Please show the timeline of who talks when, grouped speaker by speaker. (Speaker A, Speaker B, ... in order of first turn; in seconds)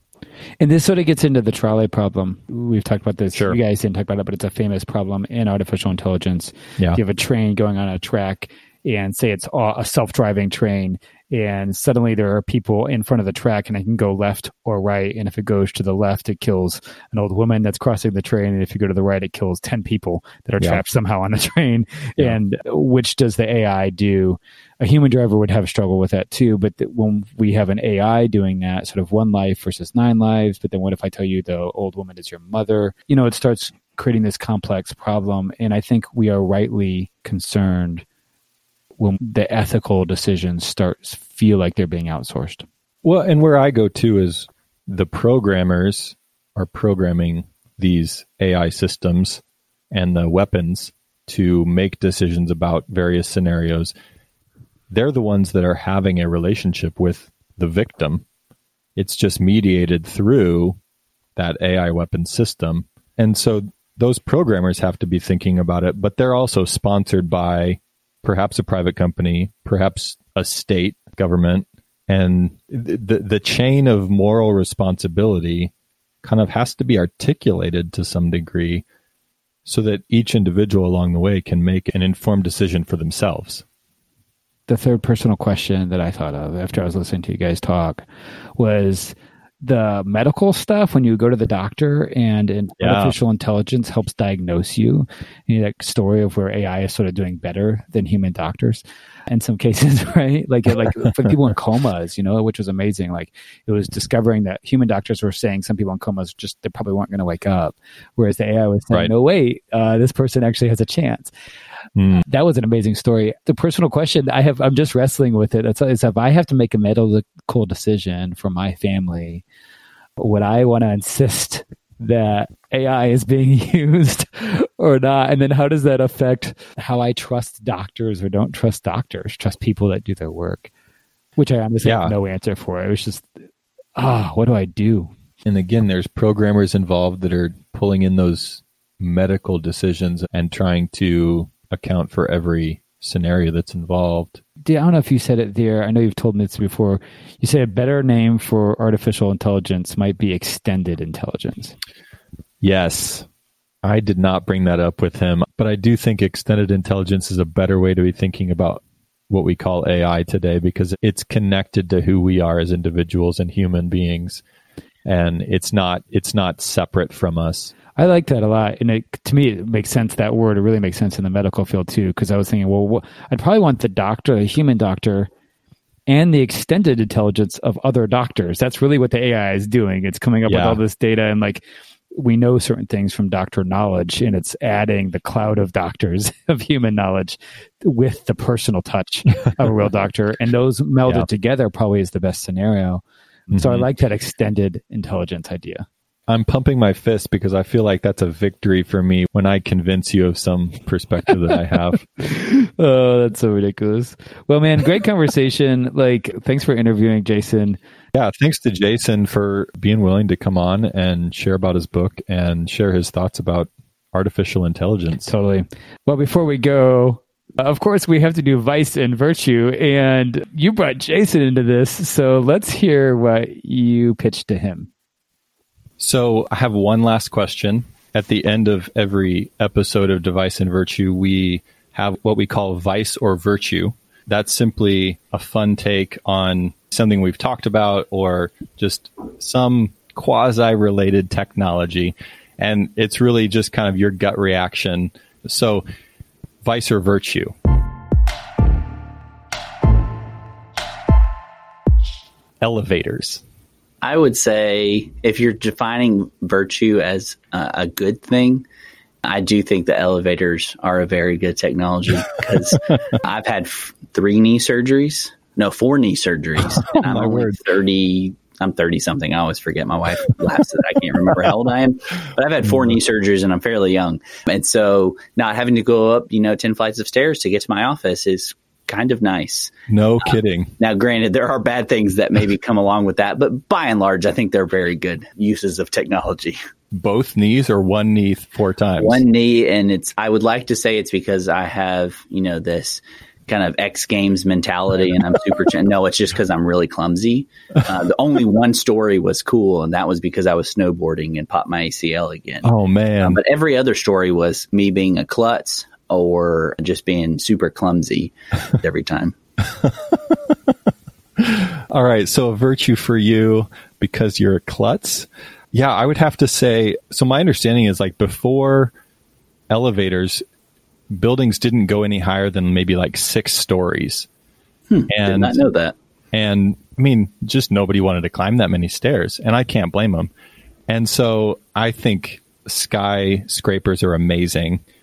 Speaker A: 0.6-38.0, 39.0-42.7, 84.7-88.0, 88.6-111.3, 112.2-119.4, 120.2-130.7, 131.4-133.3, 134.0-135.1, 144.6-151.8, 168.0-175.3, 176.1-195.9, 202.2-207.8, 215.2-224.9
Speaker B: 3.3-3.6, 43.0-49.4, 49.9-53.9, 54.9-58.2, 59.0-60.8, 61.4-75.7, 76.2-78.8, 79.7-83.6, 92.8-93.2, 112.0-112.2, 131.8-132.2, 135.4-144.4, 152.6-153.3, 153.8-164.4, 165.1-167.7, 180.5-180.8, 193.5-193.9, 196.3-202.1, 208.1-215.3, 226.0-245.8, 246.6-247.6, 252.6-253.4, 266.6-267.6, 279.9-280.7, 286.9-289.2, 302.6-303.4, 309.8-310.7, 311.4-318.9, 319.7-320.4, 321.1-324.3, 325.1-325.6, 326.3-330.3, 330.9-334.8
Speaker C: 254.0-258.6, 259.2-286.6, 289.0-302.7, 303.2-309.4, 324.9-325.9